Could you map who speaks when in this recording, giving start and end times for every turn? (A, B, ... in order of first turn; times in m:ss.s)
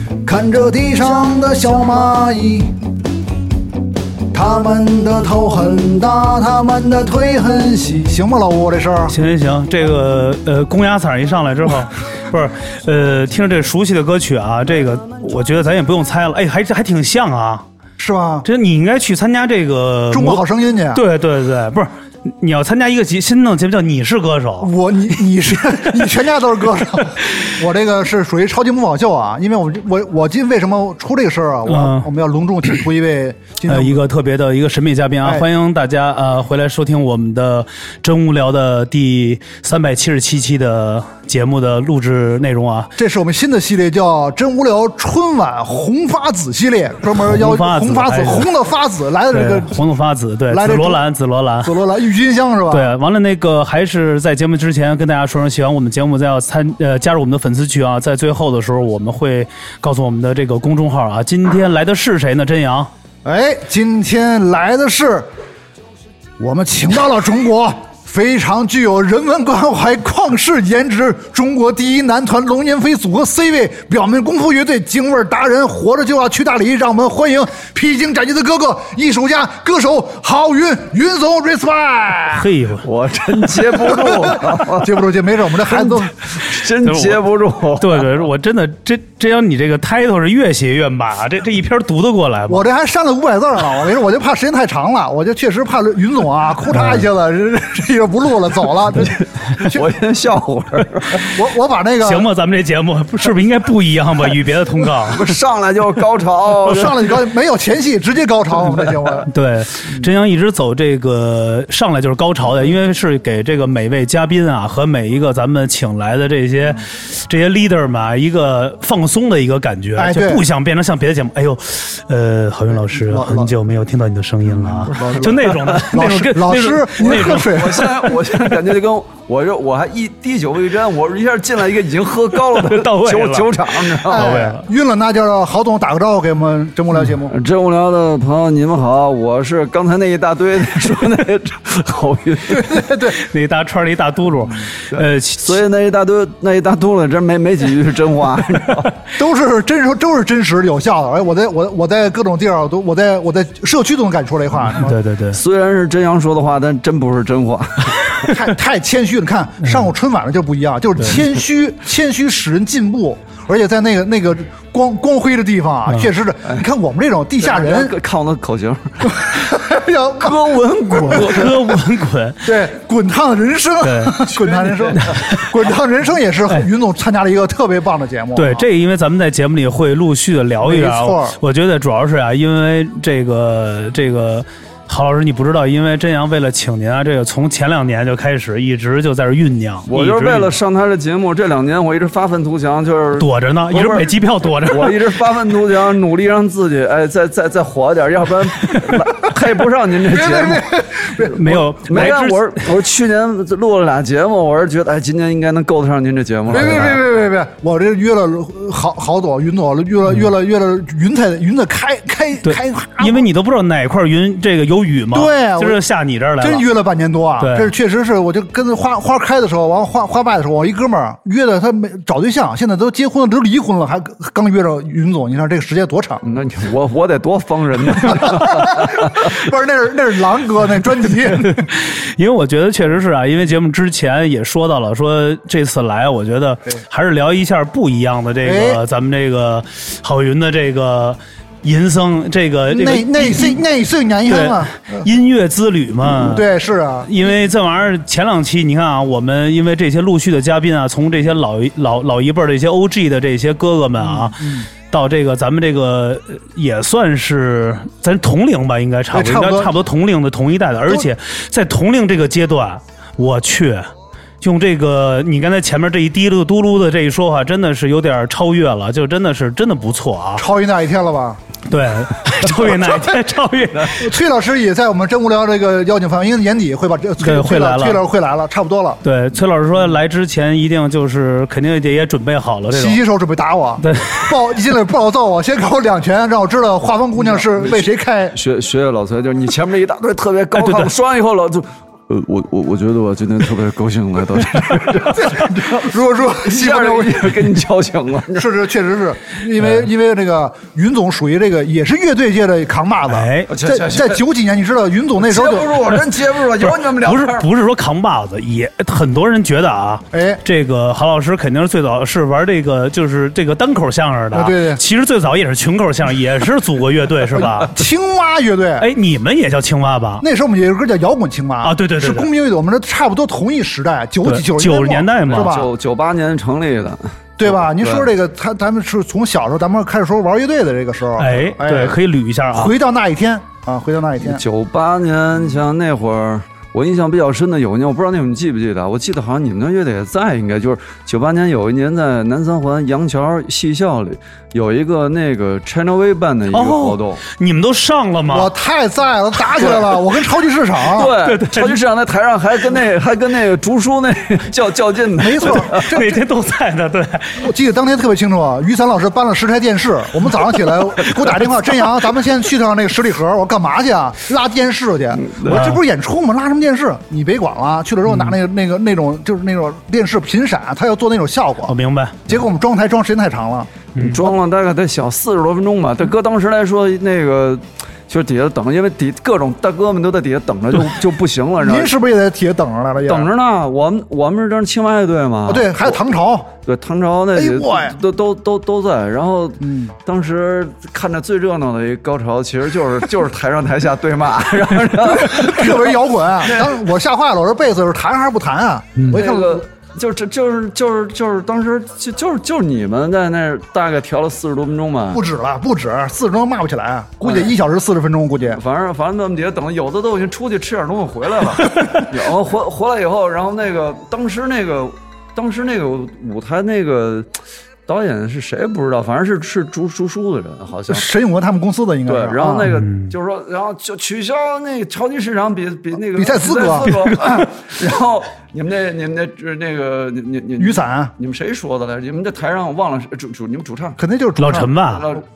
0:00.2-0:02.8 A
0:04.3-0:09.1 A
0:09.1-0:17.6 B
0:18.0-0:18.4 A
0:18.4-0:24.7 B
0:20.1-0:21.0 A
0:24.6-0:34.0 A
0:31.7-0:32.1 B
0:33.7-0:42.9 B
0:43.0-0:49.8 A
0:47.2-0:48.5 B
0:49.3-0:51.7 B
0:50.5-0:51.0 A
0:51.6-0:52.9 A
0:52.7-1:02.9 B
1:03.2-1:05.3 A
1:06.4-1:22.5 A
1:22.3-1:22.8 B
1:22.8-1:25.0 C
1:23.7-1:26.1 A
1:25.6-1:28.0 C
1:26.8-1:27.2 B
1:27.8-1:32.6 B
1:32.5-1:39.9 A
1:36.7-1:37.1 B
1:39.0-1:41.3 C
1:41.1-1:42.3 A
1:42.0-1:45.2 B
1:45.0-1:47.1 C
1:46.6-1:49.3 A
1:49.3-2:07.6 B
2:00.0-2:00.4 A
2:02.7-2:03.5 A
2:04.5-2:08.2 A
2:07.0-2:14.3 C
2:12.6-2:14.6 B
2:14.0-2:17.3 A
2:17.2-2:22.8 C
2:22.5-2:23.2 A
2:23.1-2:25.6 B
2:24.9-2:28.9 C
2:29.2-2:35.0 A
2:34.7-2:35.4 B
2:35.3-2:38.3 C
2:38.2-2:47.9 A
2:47.4-2:49.6 C
2:49.1-2:51.5 A
2:50.2-2:51.8 C
2:51.0-2:52.5 B
2:52.4-2:58.6 A
2:53.8-2:54.3 B
2:54.6-2:55.0 C
2:54.9-2:55.4 B
2:58.4-3:10.5 B
3:00.6-3:01.4 A
3:09.9-3:14.1 C
3:13.2-3:15.0 B
3:14.6-3:20.7 C
3:20.0-3:22.1 A
3:21.3-3:22.6 B
3:21.5-3:27.0 C
3:26.5-3:33.2 A
3:32.4-3:36.6 B
3:35.1-3:35.8 A
3:36.4-3:46.2 A
3:37.4-3:37.7 B
3:46.2-3:49.3 C
3:48.2-3:51.6 A
3:51.4-4:03.6 B
3:58.4-3:58.8 A
4:02.7-4:05.1 A
4:04.3-4:06.4 B
4:06.0-4:07.1 A
4:07.0-4:23.9 B
4:14.0-4:14.7 A
4:19.1-4:19.8 A
4:24.4-4:30.4 B
4:30.4-4:31.4 A
4:31.7-4:34.1 B
4:34.0-4:39.0 A
4:37.2-4:38.0 B
4:39.0-4:43.0 B
4:42.7-4:48.4 A
4:43.8-4:44.3 B
4:47.2-4:58.5 C
4:50.6-4:50.9 B
4:55.0-4:57.4 A
4:58.3-5:05.9 A
5:03.1-5:03.5 B
5:03.5-5:04.2 C
5:05.2-5:07.5 C
5:06.6-5:17.7 B
5:10.1-5:10.4 A
5:14.3-5:14.8 A
5:17.3-5:18.9 A
5:18.8-5:20.2 B
5:20.2-5:25.7 A
5:21.6-5:22.3 B
5:24.2-5:25.5 B
5:25.3-5:28.1 C
5:27.4-5:32.0 A
5:31.2-5:32.7 B
5:32.5-5:34.4 A
5:34.2-5:47.2 C
5:46.5-5:48.5 B
5:48.3-5:51.2 A
5:49.5-5:50.0 C
5:50.9-5:55.8 C
5:51.2-5:51.8 B
5:55.2-5:56.2 A
5:55.4-5:57.5 B
5:57.4-6:11.7 A
6:05.1-6:05.8 C
6:05.5-6:05.8 B
6:08.1-6:08.3 B
6:11.6-6:12.2 B
6:12.3-6:13.7 A
6:14.0-6:14.2 B
6:14.0-6:21.9 C
6:21.6-6:23.3 A
6:23.0-6:26.0 C
6:25.5-6:26.5 A
6:26.6-6:36.7 C
6:27.3-6:28.0 A
6:29.6-6:29.9 A
6:35.1-6:39.6 A
6:39.1-6:45.2 C
6:45.1-6:48.6 A
6:47.2-6:47.5 C
6:48.5-6:57.3 C
6:57.9-7:01.0 C
7:00.9-7:02.7 A
7:02.0-7:14.0 C
7:02.7-7:03.1 B
7:06.1-7:07.0 A
7:06.9-7:07.5 B
7:10.6-7:11.1 A
7:14.0-7:14.8 A
7:14.4-7:15.1 B
7:14.9-7:15.2 C